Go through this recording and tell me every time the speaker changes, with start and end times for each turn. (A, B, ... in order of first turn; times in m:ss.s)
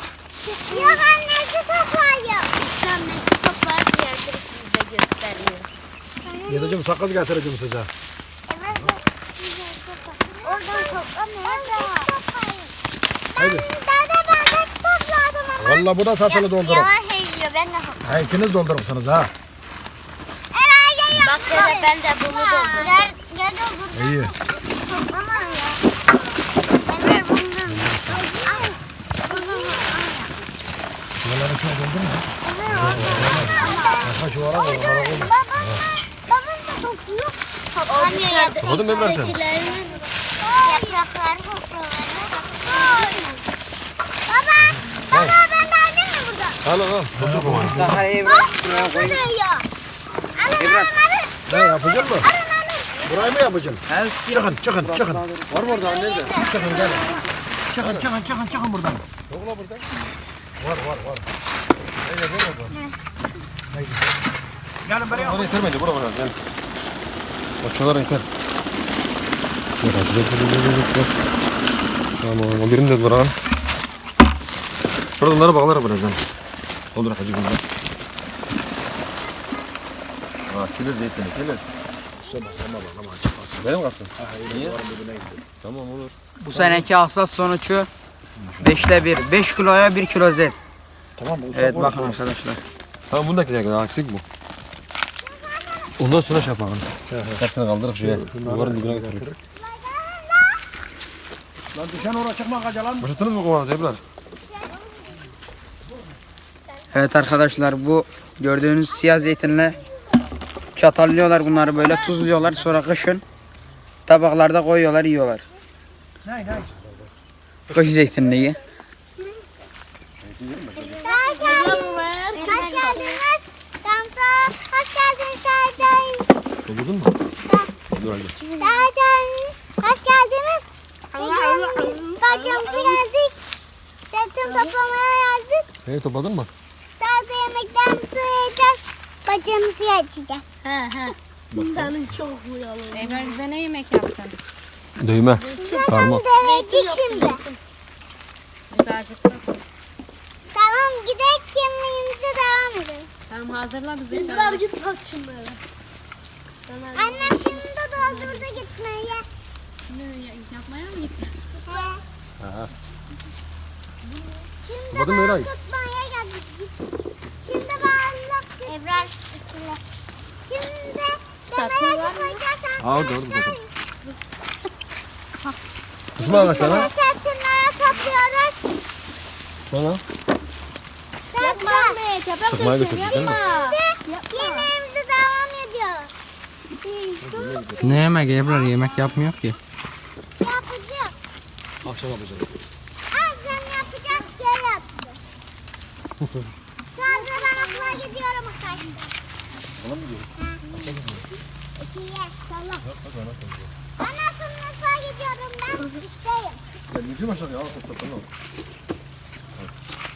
0:00.4-0:02.5 A
0:00.7-0:01.0 B
0:02.5-0:05.7 B
0:06.2-0:06.8 A
0:06.5-0:07.9 C
0:08.5-0:12.7 A
0:10.2-0:12.1 B
0:13.4-0:13.7 C
0:13.4-0:18.3 A
0:15.6-0:16.9 C
0:18.0-0:19.3 C
0:20.5-0:25.8 A
0:21.2-0:23.2 B
0:23.9-0:24.3 C
0:26.8-0:30.3 A
0:27.7-0:28.2 C
0:29.3-0:30.0 B
0:31.2-0:35.3 C
0:32.4-0:35.6 A
0:32.8-0:33.6 D
0:33.8-0:34.1 B
0:36.3-0:39.3 A
0:37.8-0:40.1 B
0:38.6-0:39.4 D
0:40.4-0:43.3 A
0:40.6-0:41.0 B
0:42.7-0:43.4 B
0:44.3-0:46.6 A
0:45.1-0:45.4 D
0:46.6-0:47.8 D
0:47.1-0:48.0 C
0:47.7-0:49.2 E
0:48.2-0:49.6 A
0:50.5-0:50.9 E
0:51.5-0:52.3 C
0:52.2-0:53.1 A
0:53.0-0:55.2 C
0:53.9-0:55.5 E
0:55.5-0:56.4 D
0:55.6-0:57.2 A
0:56.4-0:57.1 C
0:57.7-0:59.0 C
0:57.8-0:58.1 D
0:59.3-0:59.8 D
1:00.6-1:01.3 C
1:02.0-1:02.8 D
1:03.7-1:04.0 C
1:04.8-1:05.6 C
1:05.1-1:06.4 D
1:07.6-1:08.2 D
1:09.8-1:11.1 D
1:12.2-1:13.3 D
1:15.2-1:16.2 D
1:16.9-1:17.6 D
1:20.5-1:21.7 D
1:22.2-1:25.4 C
1:23.6-1:24.8 D
1:25.6-1:26.1 D
1:26.4-1:26.8 C
1:26.5-1:27.9 E
1:28.4-1:28.8 D
1:28.6-1:30.6 E
1:31.2-1:32.2 C
1:31.5-1:32.6 E
1:33.1-1:34.2 D
1:36.0-1:39.3 D
1:37.1-1:37.4 C
1:38.0-1:39.4 C
1:41.7-1:43.1 C
1:43.0-1:44.0 D
1:44.5-1:45.0 A
1:46.9-1:49.8 E
1:50.8-1:53.2 E
1:54.1-1:55.4 E
1:56.2-1:56.8 C
1:57.7-1:58.6 E
2:00.2-2:01.2 D
2:00.8-2:06.4 A
2:01.3-2:03.2 B
2:06.6-2:07.1 D
2:07.4-2:07.7 A
2:07.9-2:08.3 D
2:08.4-2:13.3 A
2:11.1-2:13.0 B
2:14.1-2:15.6 A
2:14.4-2:14.7 B
2:15.8-2:16.5 D
2:17.0-2:20.4 A
2:20.6-2:23.4 B
2:21.5-2:22.0 D
2:22.9-2:24.4 F
2:25.0-2:26.2 D
2:25.4-2:27.6 B
2:25.6-2:27.4 A
2:28.7-2:29.5 F
2:30.5-2:33.1 A
2:33.3-2:34.7 F
2:34.1-2:35.6 B
2:36.7-2:38.6 B
2:36.9-2:39.2 A
2:39.9-2:40.3 B
2:40.2-2:41.3 F
2:41.6-2:42.0 A
2:42.4-2:42.7 D
2:44.6-2:46.8 A
2:44.9-2:45.5 D
2:47.4-2:49.8 A
2:50.4-2:53.6 A
2:51.5-2:52.4 B
2:52.8-2:53.6 D
2:56.2-2:56.9 D
2:56.2-2:58.7 A
2:56.4-2:56.8 B
2:59.7-3:00.0 D
3:01.3-3:02.0 A
3:01.4-3:03.8 B
3:02.5-3:03.4 D
3:02.8-3:03.2 F
3:03.5-3:06.1 A
3:04.3-3:04.7 B
3:07.2-3:08.1 D
3:07.8-3:09.6 E
3:10.4-3:11.1 A
3:11.8-3:12.5 D
3:13.1-3:15.2 A
3:16.9-3:19.1 A
3:19.8-3:21.2 D
3:21.8-3:22.9 A
3:22.8-3:23.7 D
3:24.0-3:26.6 A
3:26.9-3:28.3 D